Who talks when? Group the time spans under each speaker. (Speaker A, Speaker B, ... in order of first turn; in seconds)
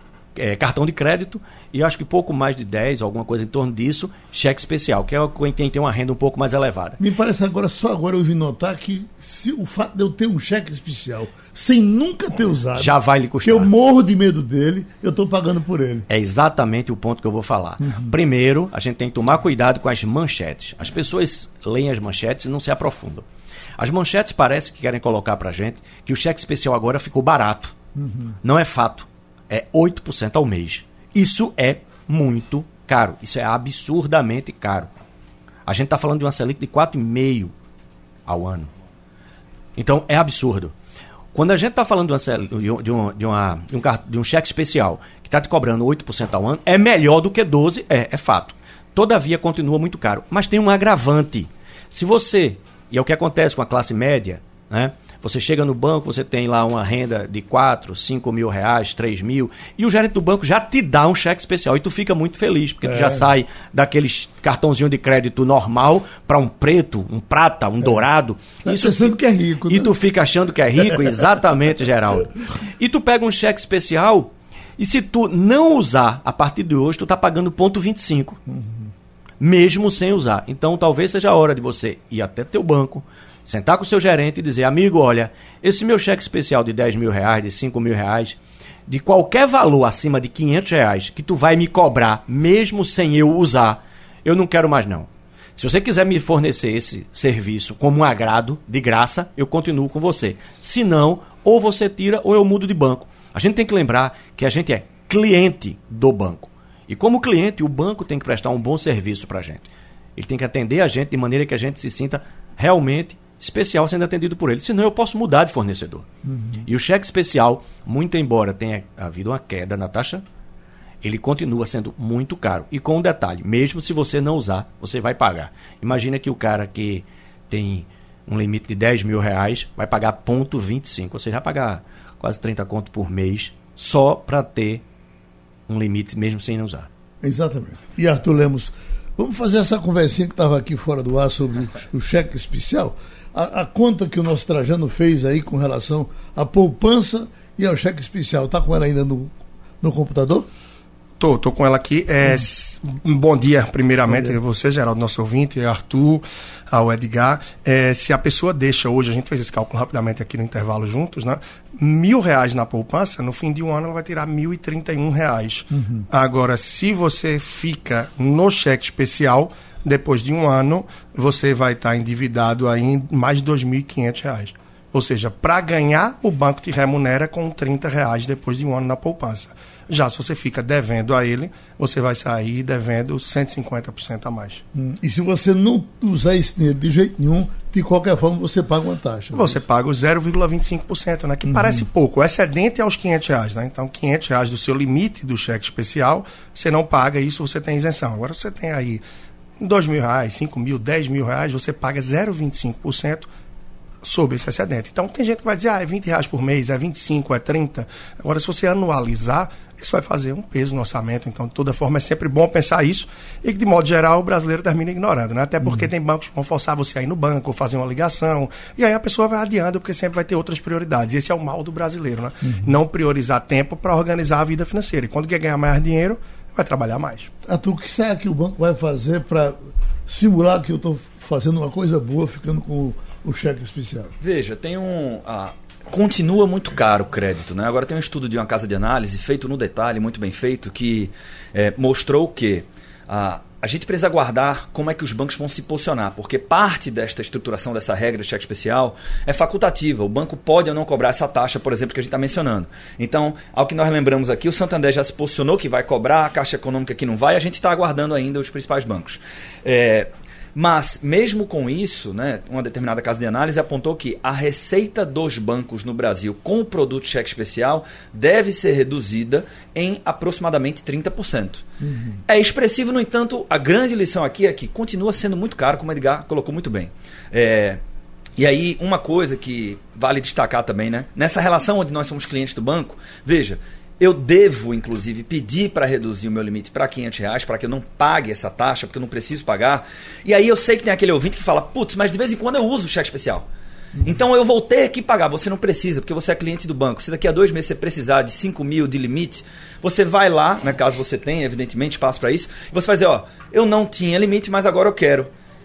Speaker A: 0.3-7.0, 12.8-13.7, 16.1-23.2, 23.8-27.8, 28.4-34.9, 35.7-37.5, 38.3-38.7, 39.8-40.7, 41.3-78.4, 79.4-116.1, 116.7-120.2, 121.0-134.8, 135.7-136.9
Speaker B: 7.0-16.1, 17.8-18.1, 28.0-28.4, 62.9-63.2, 68.6-70.0, 78.5-78.9, 116.3-116.6, 137.2-150.5, 154.1-154.4, 165.7-166.1, 184.7-189.7, 191.5-191.9, 215.6-215.9, 222.4-222.8, 227.4-234.2, 271.8-272.2
Speaker C: 151.2-184.6, 189.3-199.0, 199.6-203.3, 204.0-227.3
Speaker D: 234.2-271.6, 272.3-277.8, 278.4-293.5, 294.0-305.3